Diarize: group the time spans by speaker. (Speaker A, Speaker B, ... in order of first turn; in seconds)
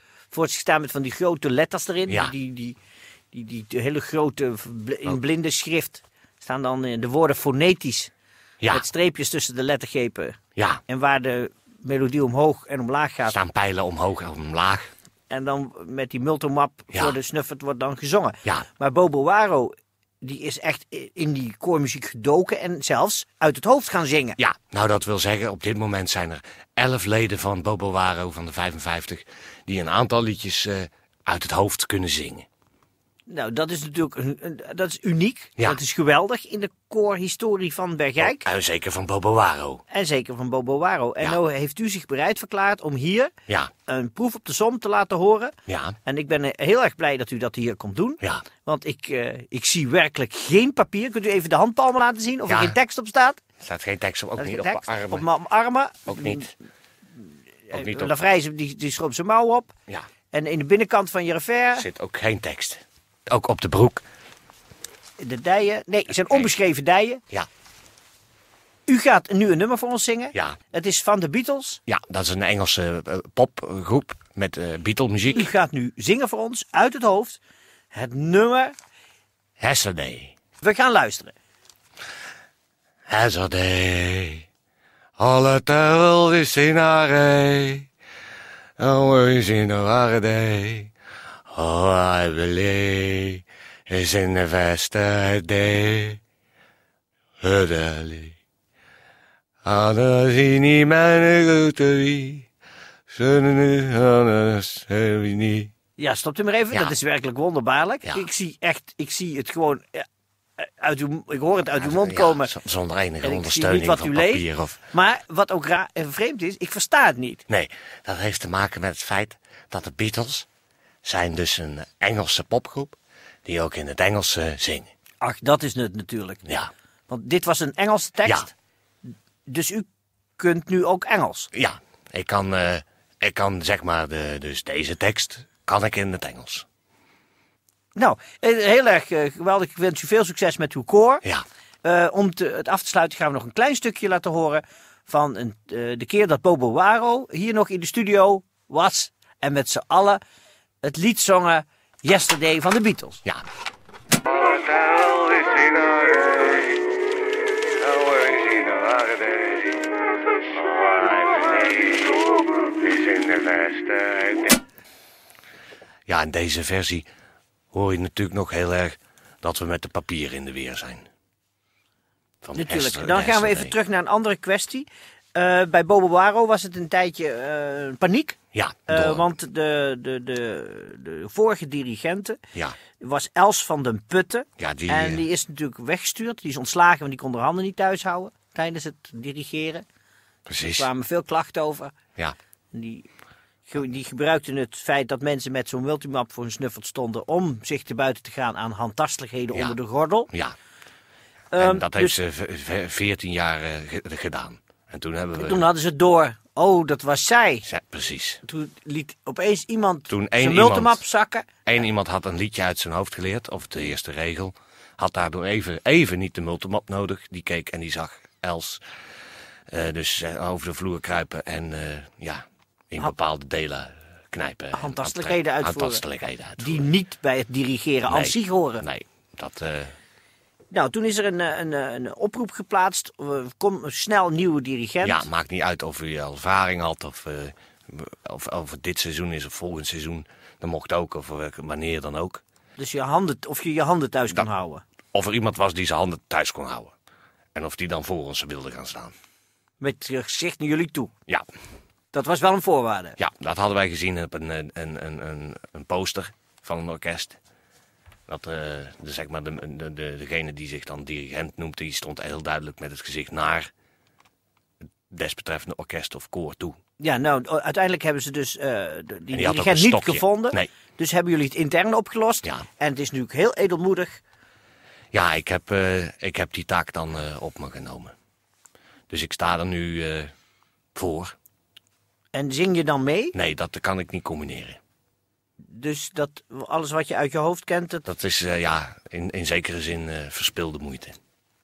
Speaker A: 0.3-2.8, 3.3-8.1, 8.7-10.3, 10.9-13.3, 15.3-24.4, 33.3-38.5, 39.9-43.3, 43.9-45.5, 46.0-53.4, 54.4-56.5, 57.7-59.7, 60.3-61.9, 65.2-67.2, 68.9-71.8, 75.3-77.4, 77.9-78.7, 80.6-81.3, 106.0-110.0, 110.6-112.5, 113.2-117.4, 125.2-126.5, 127.1-128.5, 129.5-129.8, 130.4-131.5, 137.9-141.2, 141.8-150.2, 150.8-153.2, 172.5-178.4, 178.9-182.4, 183.0-189.8, 190.8-191.9, 192.7-193.1, 193.7-200.3, 201.5-202.1, 205.4-207.7, 208.4-211.5, 224.7-226.0, 226.6-228.8, 230.7-235.3, 242.8-244.8, 249.8-251.1, 252.1-253.2, 267.0-274.2, 282.3-283.3, 285.7-288.0
Speaker B: 13.3-14.9, 24.4-32.4, 38.2-39.8, 45.7-46.0, 52.5-52.8, 53.6-55.2, 56.1-56.5, 57.7-58.1, 61.8-64.0, 71.9-75.5, 79.6-80.3, 83.1-84.5, 85.2-87.9, 88.8-90.9, 91.5-96.2, 97.4-98.3, 99.6-102.5, 103.1-105.7, 111.8-114.8, 117.5-120.5, 121.0-124.9, 126.5-126.7, 131.5-136.6, 154.9-155.9, 158.0-159.5, 160.7-161.7, 162.9-164.2, 166.1-167.1, 167.7-171.1, 172.4-173.7, 178.5-179.2, 184.6-185.2, 190.5-190.9, 201.6-205.7, 207.7-208.4, 210.1-211.0, 211.7-218.8, 219.7-226.9, 228.1-229.9, 235.0-242.4, 245.1-246.9, 247.5-249.1, 253.2-257.4, 258.3-263.7, 265.1-266.8, 269.3-270.7, 275.1-278.1, 279.1-280.3, 280.9-281.3, 283.3-284.8, 288.0-291.2